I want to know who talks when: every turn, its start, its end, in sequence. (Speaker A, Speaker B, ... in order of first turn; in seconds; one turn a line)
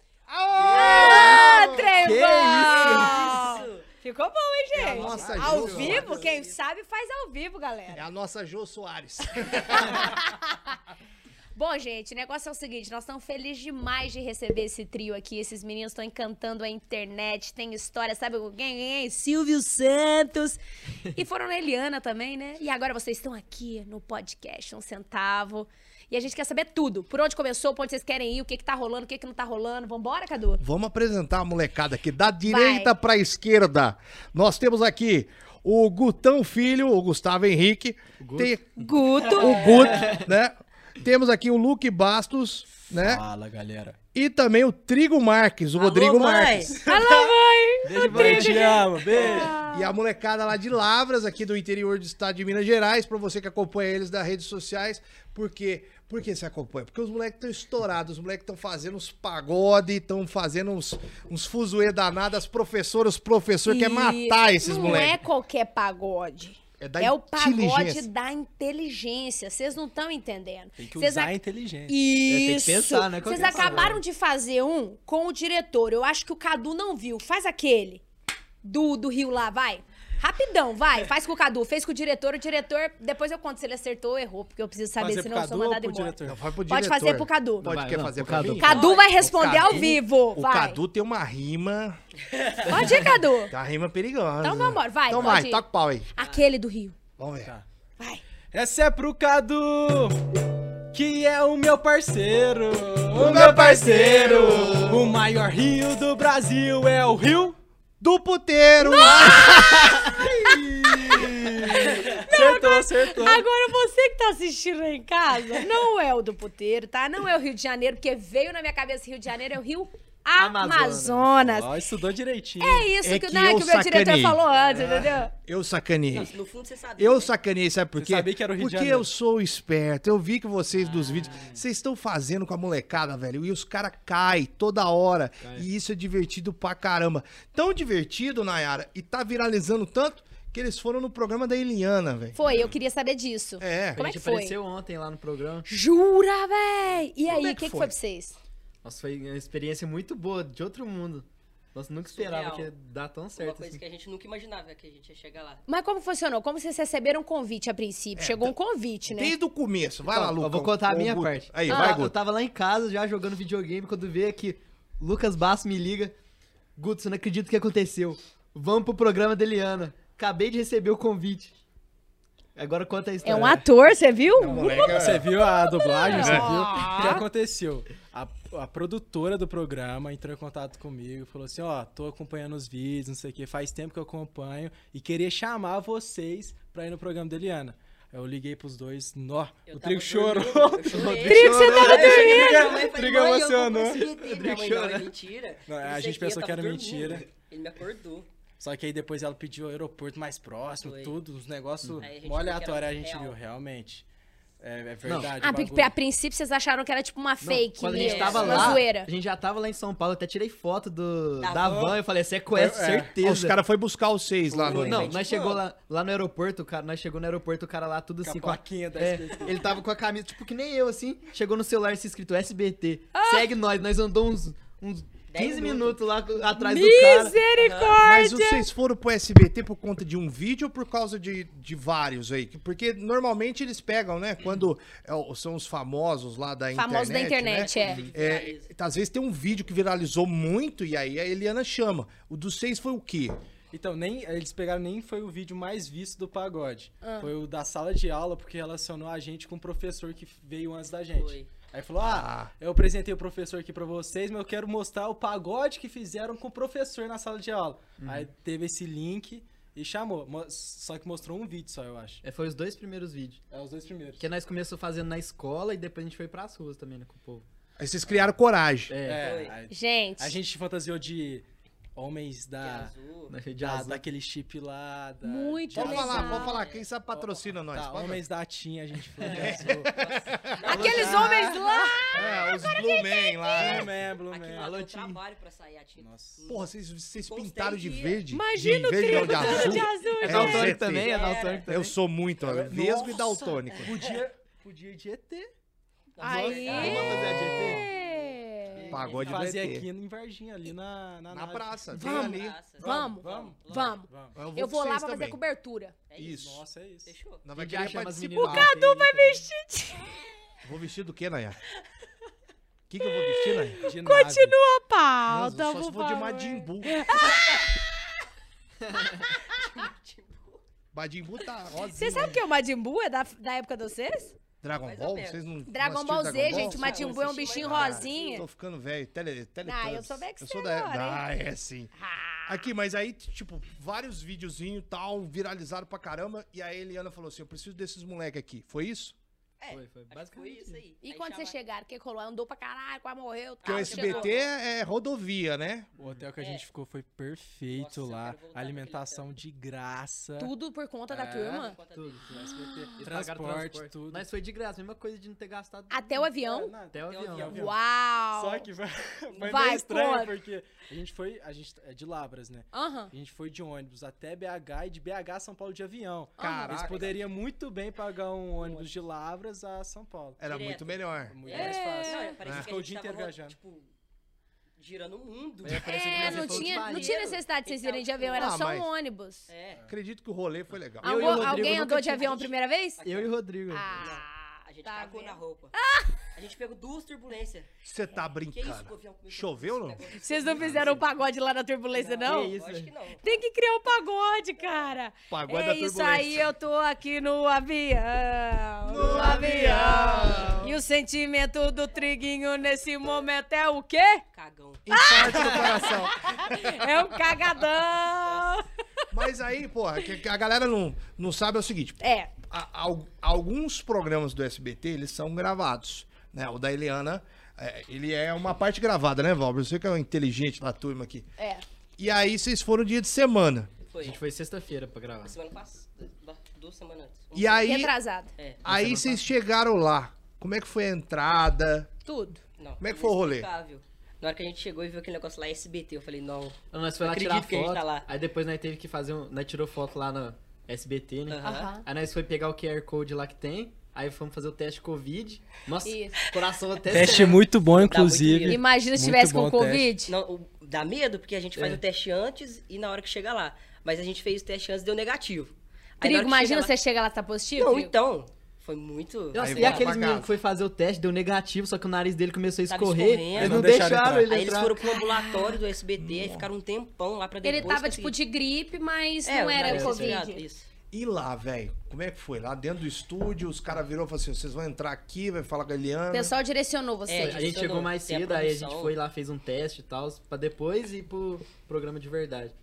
Speaker A: 0.3-2.0
Speaker B: 0.6-3.5
Speaker C: 0.7-8.1
Speaker D: 0.8-1.5
Speaker D: 2.4-3.9
Speaker A: 4.8-6.2
Speaker B: 4.8-6.2
Speaker E: 4.9-6.3
Speaker D: 5.8-6.5
Speaker A: 7.9-10.2
Speaker C: 9.5-10.8
Speaker C: 11.6-20.6
Speaker C: 21.1-30.6
Speaker A: 30.6-43.2
Speaker C: 32.5-32.9
Speaker B: 38.2-38.6
Speaker C: 38.8-40.1
Speaker D: 39.3-39.9
Speaker B: 39.9-40.3
Speaker E: 42.9-44.0
Speaker A: 44.1-46.8
Speaker D: 45.8-46.8
Speaker E: 46.7-47.4
Speaker C: 46.9-49.9
Speaker B: 47.9-48.8
Speaker E: 48.0-49.6
Speaker A: 49.6-65.2
Speaker C: 63.7-71.3
Speaker A: 66.8-68.1
Speaker E: 70.8-72.0
Speaker C: 71.9-78.0
Speaker B: 72.3-74.0
Speaker C: 78.6-87.7
Speaker E: 85.0-86.4
Speaker A: 86.2-92.0
Speaker B: 87.6-88.8
Speaker C: 88.6-90.8
Speaker D: 88.6-89.8
Speaker D: 92.3-92.6
Speaker B: 92.6-93.2
Speaker C: 92.7-93.5
Speaker A: 93.5-96.1
Speaker C: 94.4-97.0
Speaker A: 97.2-97.5
Speaker E: 98.5-100.2
Speaker E: 100.9-107.6
Speaker A: 103.1-105.1
Speaker A: 108.0-110.1
Speaker C: 108.8-121.7
Speaker B: 110.0-111.7
Speaker E: 110.5-113.5
Speaker B: 120.4-121.5
Speaker E: 121.4-122.9
Speaker C: 122.6-125.3
Speaker A: 123.0-126.3
Speaker B: 124.7-125.0
Speaker D: 126.1-127.3
Speaker A: 127.0-142.7
Speaker E: 128.0-129.1
Speaker D: 130.8-131.5
Speaker E: 131.2-131.6
Speaker B: 135.4-135.7
Speaker C: 142.3-144.6
Speaker A: 143.6-144.0
Speaker B: 143.9-145.7
Speaker C: 145.7-148.4
Speaker A: 147.3-147.9
Speaker B: 148.8-153.8
Speaker D: 152.1-152.7
Speaker D: 153.4-155.6
Speaker C: 155.7-159.4
Speaker A: 158.2-158.5
Speaker A: 159.1-162.2
Speaker B: 160.1-166.1
Speaker C: 161.7-162.0
Speaker B: 166.8-171.5
Speaker B: 172.6-173.6
Speaker C: 173.2-177.2
Speaker E: 173.3-173.6
Speaker A: 174.4-175.3
Speaker E: 174.5-191.1
Speaker A: 176.1-177.2
Speaker D: 189.7-198.3
Speaker B: 190.8-192.3
Speaker C: 191.2-192.8
Speaker E: 192.0-194.0
Speaker B: 193.9-195.1
Speaker E: 195.7-197.3
Speaker E: 198.6-204.0
Speaker D: 200.8-201.1
Speaker B: 201.8-202.1
Speaker D: 202.0-203.4
Speaker E: 204.6-205.9
Speaker B: 205.1-205.3
Speaker C: 205.4-209.1
Speaker B: 207.4-213.6
Speaker D: 207.9-208.8
Speaker E: 208.5-208.8
Speaker D: 211.4-212.0
Speaker E: 212.5-213.2
Speaker A: 213.2-215.1
Speaker E: 214.5-215.1
Speaker D: 214.6-215.6
Speaker B: 214.7-227.4
Speaker E: 218.2-219.7
Speaker C: 223.1-223.5
Speaker D: 225.3-226.0
Speaker C: 226.5-228.7
Speaker D: 227.6-228.0
Speaker A: 228.0-243.4
Speaker C: 236.8-238.0
Speaker D: 237.6-238.7
Speaker E: 243.7-262.2
Speaker C: 247.0-247.3
Speaker D: 251.2-251.5
Speaker A: 252.0-252.5
Speaker B: 258.0-258.3
Speaker B: 262.2-263.4
Speaker E: 263.5-264.2
Speaker B: 264.2-267.5
Speaker A: 267.8-268.9
Speaker B: 268.9-269.2
Speaker E: 269.0-271.4
Speaker D: 269.1-269.6
Speaker C: 269.7-270.4
Speaker E: 272.0-272.9
Speaker D: 272.6-273.4
Speaker B: 273.3-274.1
Speaker E: 273.5-276.6
Speaker C: 275.2-276.6
Speaker A: 275.7-278.2
Speaker D: 276.4-276.9
Speaker E: 277.1-279.9
Speaker B: 279.2-279.8
Speaker A: 279.3-280.7
Speaker D: 279.9-281.2
Speaker C: 280.6-283.9
Speaker B: 280.6-281.5
Speaker E: 280.7-282.1
Speaker A: 282.1-283.9
Speaker E: 283.6-284.7
Speaker D: 284.2-288.2
Speaker B: 284.6-285.2
Speaker E: 286.0-286.4
Speaker A: 286.5-294.0
Speaker C: 288.3-290.8
Speaker B: 289.4-291.9
Speaker E: 289.4-289.8
Speaker D: 290.9-291.7
Speaker E: 292.4-293.3
Speaker C: 293.0-293.6
Speaker D: 293.7-294.0
Speaker E: 293.8-295.5
Speaker D: 296.1-297.2
Speaker C: 296.2-299.0
Speaker B: 296.3-297.9
Speaker A: 296.8-297.8
Speaker D: 297.8-299.7
Speaker B: 298.8-299.2
Speaker A: 298.9-299.9
Speaker E: 299.1-302.0
Speaker A: 301.3-303.2
Speaker C: 301.9-306.0
Speaker D: 302.1-304.0
Speaker E: 303.2-304.4
Speaker A: 304.3-305.4
Speaker D: 306.1-306.5
Speaker A: 306.2-306.6
Speaker E: 306.2-307.2
Speaker D: 307.1-307.4
Speaker A: 307.4-308.7
Speaker B: 307.6-309.4
Speaker C: 308.4-310.2
Speaker A: 310.6-311.6
Speaker A: 312.9-313.8
Speaker C: 313.0-317.9
Speaker E: 313.8-314.6
Speaker A: 315.3-316.9
Speaker D: 319.2-320.6
Speaker A: 320.9-322.4
Speaker C: 321.9-324.4
Speaker A: 324.6-331.9
Speaker D: 324.8-325.4
Speaker C: 325.7-328.5
Speaker D: 326.4-328.4
Speaker C: 329.6-331.2
Speaker C: 332.0-332.6
Speaker A: 332.5-339.2
Speaker D: 339.6-341.5
Speaker B: 339.7-340.8
Speaker C: 341.0-344.4
Speaker D: 343.6-344.5
Speaker A: 343.6-345.9
Speaker E: 346.0-350.5
Speaker B: 346.0-346.3
Speaker D: 346.4-346.7
Speaker D: 347.7-349.3
Speaker C: 350.4-351.8
Speaker E: 351.1-351.8
Speaker D: 351.4-352.3
Speaker B: 351.9-356.3
Speaker C: 352.3-353.1
Speaker E: 352.3-354.3
Speaker C: 355.9-356.7
Speaker E: 356.4-357.8
Speaker B: 356.9-357.7
Speaker D: 357.1-357.7
Speaker C: 357.5-358.7
Speaker E: 358.3-370.4
Speaker C: 359.3-360.3
Speaker C: 362.7-363.1
Speaker C: 366.4-366.9
Speaker A: 366.4-367.1
Speaker D: 366.7-367.2
Speaker D: 368.6-368.9
Speaker A: 370.4-371.4
Speaker D: 370.5-373.9
Speaker E: 371.3-373.6
Speaker C: 371.5-372.4
Speaker D: 374.8-378.6
Speaker B: 375.6-377.2
Speaker C: 375.8-379.5
Speaker A: 378.3-378.9
Speaker D: 379.5-379.8
Speaker A: 379.9-381.4
Speaker B: 381.0-382.5
Speaker C: 381.0-383.0
Speaker D: 381.4-381.7
Speaker D: 383.0-383.3
Speaker B: 383.0-383.9
Speaker C: 383.7-386.3
Speaker D: 384.0-385.7
Speaker D: 386.3-387.7
Speaker A: 387.8-390.0
Speaker D: 388.5-391.1
Speaker C: 390.1-392.6
Speaker B: 390.7-391.0
Speaker D: 391.9-393.2
Speaker B: 392.2-392.9
Speaker C: 393.2-404.2
Speaker D: 394.6-394.9
Speaker A: 395.3-396.5
Speaker A: 398.8-400.7
Speaker B: 399.0-400.7
Speaker D: 404.3-404.9
Speaker A: 404.9-407.0
Speaker C: 404.9-409.1
Speaker D: 408.3-408.6
Speaker A: 409.1-421.3
Speaker C: 412.0-412.3
Speaker C: 421.4-421.6
Speaker A: 422.0-423.7
Speaker D: 423.9-424.2
Speaker B: 424.0-425.4
Speaker D: 425.2-427.8
Speaker A: 427.3-427.9
Speaker C: 427.6-428.3
Speaker A: 428.6-431.9
Speaker B: 428.6-429.2
Speaker C: 432.1-432.4
Speaker D: 432.6-438.1
Speaker A: 432.8-433.5
Speaker B: 436.7-447.5
Speaker D: 441.3-441.7
Speaker C: 441.4-441.9
Speaker C: 445.8-446.2
Speaker E: 446.9-450.0
Speaker D: 447.7-448.6
Speaker C: 448.4-450.1
Speaker D: 450.1-456.7
Speaker B: 451.6-451.8
Speaker C: 456.0-457.9
Speaker D: 457.6-460.0
Speaker B: 459.3-464.7
Speaker A: 459.4-460.3
Speaker D: 462.7-468.2
Speaker E: 463.4-464.6
Speaker C: 464.8-465.6
Speaker A: 466.0-466.5
Speaker C: 467.4-470.4
Speaker D: 469.2-470.7
Speaker B: 469.6-470.2
Speaker A: 470.9-476.3
Speaker C: 476.1-477.5
Speaker D: 477.1-479.0
Speaker B: 477.2-482.6